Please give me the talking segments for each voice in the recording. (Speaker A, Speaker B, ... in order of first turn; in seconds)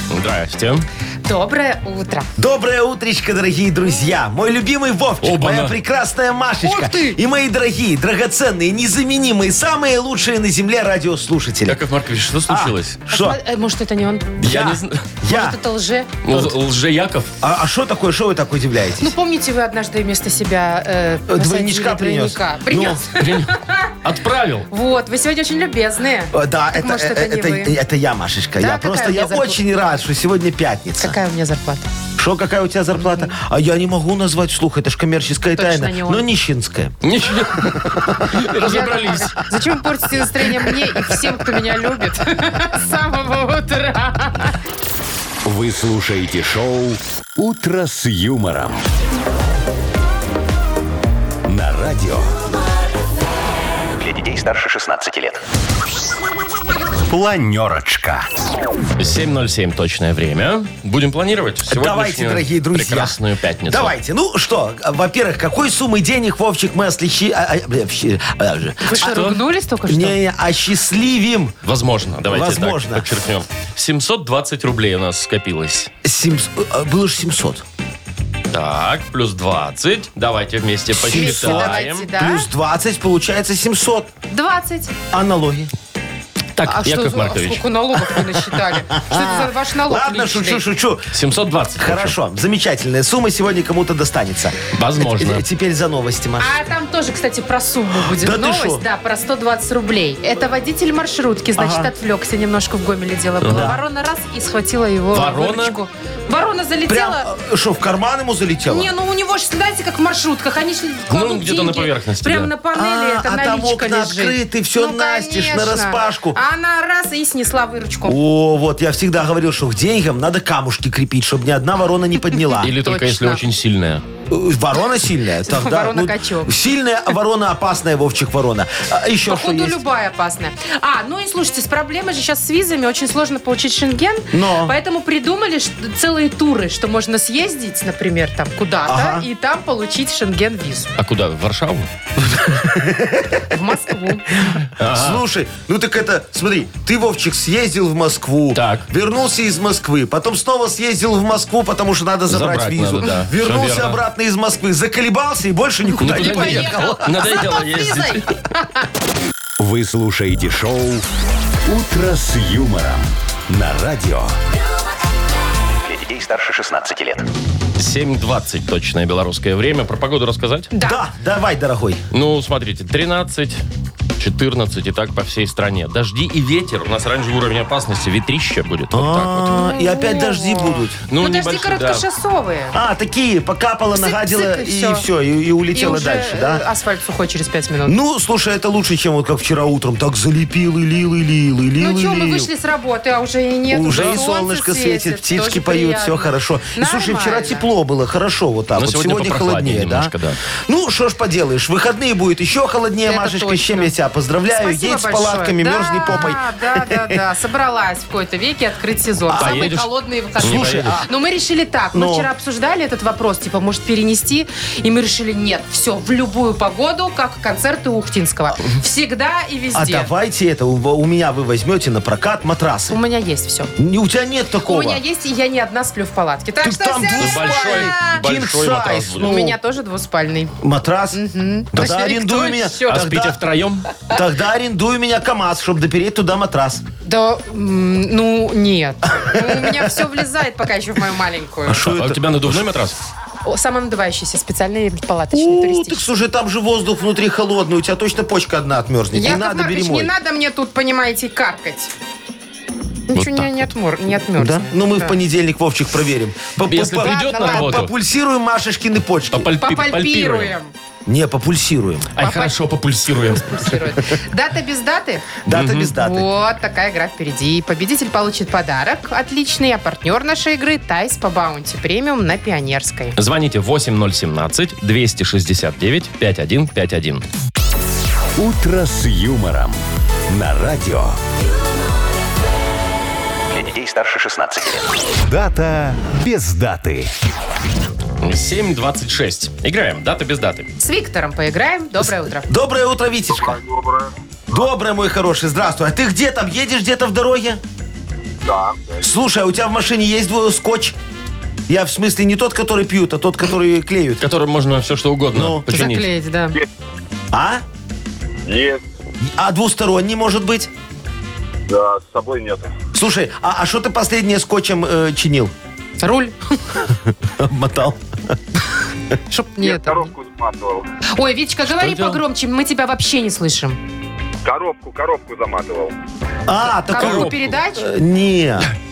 Speaker A: 0.1-0.9, 5.2-5.8, 11.7-13.0, 14.4-15.1, 16.2-17.3, 23.2-24.7, 37.0-39.4, 59.0-63.9, 69.0-69.4, 71.6-75.9, 78.5-82.1, 86.6-87.6, 91.1-92.2, 94.7-95.4, 103.4-103.7, 105.1-105.8, 111.1-112.5, 122.6-124.0, 141.0-141.9, 144.8-145.2, 148.5-148.8, 152.3-154.0, 156.0-158.3, 167.8-170.7, 172.1-173.6, 174.2-179.6, 181.1-182.1, 193.9-194.2, 198.8-200.4, 209.4-210.9, 227.2-229.4, 232.9-233.9, 241.8-243.0, 253.1-253.7, 256.7-257.9, 259.3-260.5, 262.2-263.8, 265.5-265.9, 273.2-277.2, 288.2-290.7, 304.2-306.1, 321.7-322.2, 326.9-327.5
Speaker B: 1.3-2.3, 6.6-7.2, 13.1-14.4, 15.3-16.1, 19.0-23.9, 24.7-27.8, 28.6-29.6, 31.0-31.9, 33.0-33.3, 35.6-36.2, 38.6-44.5, 68.8-70.2, 81.1-82.5, 84.3-84.9, 86.7-90.6, 96.4-107.3, 108.7-118.2, 122.3-123.4, 125.4-126.5, 129.2-140.9, 143.5-144.3, 156.0-158.8, 170.7-171.0, 179.5-182.8, 183.9-185.1, 185.7-188.0, 191.8-197.7, 203.1-203.9, 204.5-220.1, 222.9-223.7, 224.7-228.2, 229.2-230.6, 231.1-233.0, 237.1-241.8, 243.4-246.1, 249.1-251.9, 253.1-255.2, 257.0-257.9, 259.6-260.7, 262.2-262.5, 263.3-265.4, 265.9-273.2, 290.8-292.5, 305.7-306.6, 316.0-316.4, 319.3-320.1, 321.1-323.8, 326.9-327.9
Speaker C: 2.4-11.8, 12.5-13.4, 14.4-15.6, 16.3-16.6, 17.4-19.1, 21.3-23.1, 26.3-31.2, 32.2-38.4, 40.3-41.0, 61.7-63.2, 63.7-69.3, 69.9-71.6, 72.3-73.2, 76.0-77.6, 81.0-84.1, 85.1-85.7, 88.2-91.2, 91.8-96.6, 97.9-98.8, 101.6-101.9, 103.5-103.8, 106.9-108.9, 112.7-116.4, 118.0-122.7, 124.3-129.8, 134.3-134.7, 138.9-139.3, 142.3-143.7, 144.3-157.3, 170.8-172.0, 178.9-181.0, 182.7-186.6, 187.9-192.5, 193.7-200.1, 200.7-207.2, 209.3-209.7, 210.4-211.1, 211.9-212.3, 219.7-223.0, 223.8-225.0, 226.6-229.6, 230.6-233.4, 234.1-236.8, 239.2-240.0, 241.7-242.6, 245.3-250.1, 254.4-259.5, 261.1-262.1, 265.4-266.3, 292.5-293.6, 294.5-297.6, 299.0-301.0, 301.7-304.2, 305.3-305.7, 307.3-307.6, 309.2-310.7, 312.9-315.5, 317.2-318.6, 326.5-328.7
Speaker D: 45.5-48.8, 51.5-52.4, 54.0-55.4, 57.1-58.3, 159.6-161.1, 161.7-164.3, 165.8-167.3, 278.4-281.2, 283.5-287.1
Speaker E: 293.3-294.1, 298.5-299.1, 308.5-308.9, 311.7-312.7, 319.6-320.9, 324.4-325.9